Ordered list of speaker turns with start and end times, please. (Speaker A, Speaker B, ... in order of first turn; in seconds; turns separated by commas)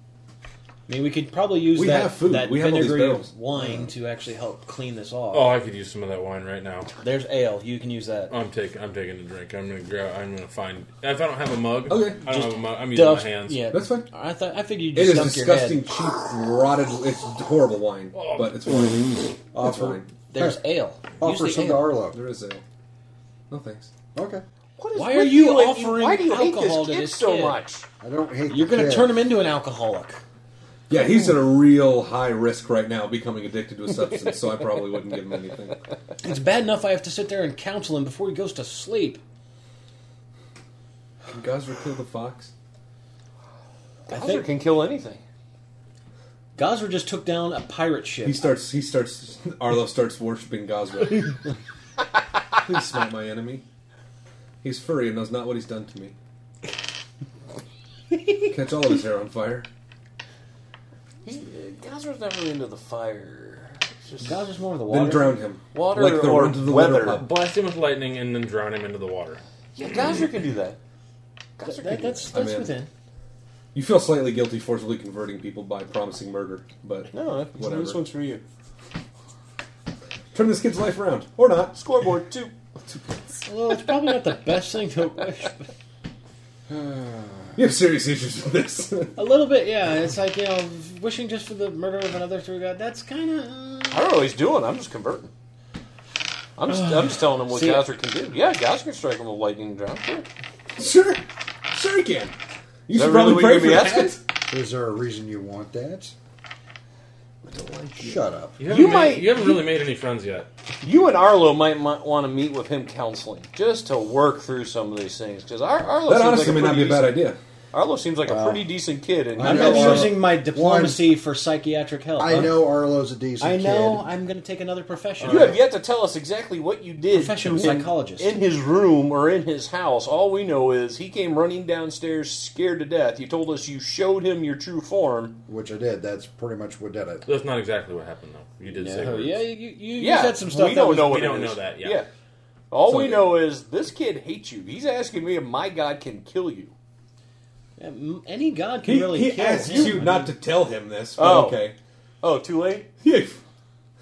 Speaker A: 0.9-5.5, Speaker B: 1.7-3.3, Speaker C: 5.3-6.9, Speaker A: 7.0-8.3, Speaker C: 8.3-13.7, Speaker B: 11.9-12.2, Speaker A: 12.3-15.8, Speaker B: 13.7-14.1, Speaker B: 14.9-20.1, Speaker C: 18.1-18.6, Speaker D: 19.5-20.6, Speaker A: 20.3-21.9, Speaker D: 21.2-22.2, Speaker B: 22.1-22.6, Speaker B: 23.5-23.9, Speaker D: 24.1-24.4, Speaker E: 24.8-27.9, Speaker A: 24.9-27.6, Speaker D: 28.0-29.3, Speaker A: 28.5-30.2, Speaker B: 30.9-35.8, Speaker A: 36.2-39.2, Speaker B: 41.3-42.5, Speaker E: 44.1-45.2, Speaker A: 44.1-44.5, Speaker A: 46.6-48.5, Speaker B: 48.2-51.4, Speaker B: 52.6-53.6, Speaker B: 54.6-56.2, Speaker B: 58.5-59.7, Speaker E: 61.2-64.3, Speaker A: 64.2-65.4, Speaker B: 64.9-67.2, Speaker E: 65.7-67.3, Speaker C: 67.1-69.4, Speaker E: 69.8-70.8, Speaker E: 71.6-72.3, Speaker A: 71.6-72.9, Speaker B: 72.3-72.8, Speaker B: 73.7-78.0, Speaker E: 77.1-78.4, Speaker B: 80.3-81.8, Speaker E: 81.7-82.5, Speaker B: 82.9-83.2, Speaker A: 83.5-85.7, Speaker D: 86.9-87.2, Speaker B: 87.5-89.2, Speaker A: 89.2-94.1, Speaker E: 93.9-95.3, Speaker E: 96.6-100.3, Speaker A: 96.7-97.9, Speaker B: 100.8-102.3, Speaker B: 102.9-104.2, Speaker E: 102.9-104.2, Speaker D: 104.5-106.1, Speaker B: 107.5-108.2, Speaker D: 108.0-108.6, Speaker C: 108.6-110.5, Speaker E: 108.6-109.7, Speaker E: 110.8-117.2, Speaker B: 116.0-117.4, Speaker E: 117.7-120.2, Speaker D: 119.4-121.2, Speaker A: 119.4-122.7, Speaker D: 122.2-124.1, Speaker A: 123.4-125.6, Speaker E: 125.2-135.4, Speaker A: 127.1-128.3, Speaker D: 135.5-137.3, Speaker C: 137.3-139.5, Speaker A: 138.7-141.4, Speaker E: 140.0-142.1, Speaker C: 141.0-142.0, Speaker E: 142.7-146.7, Speaker B: 142.8-143.4, Speaker A: 147.8-150.3, Speaker B: 148.8-151.8, Speaker E: 149.6-150.2, Speaker E: 151.2-151.7, Speaker E: 152.2-152.9, Speaker B: 153.0-153.4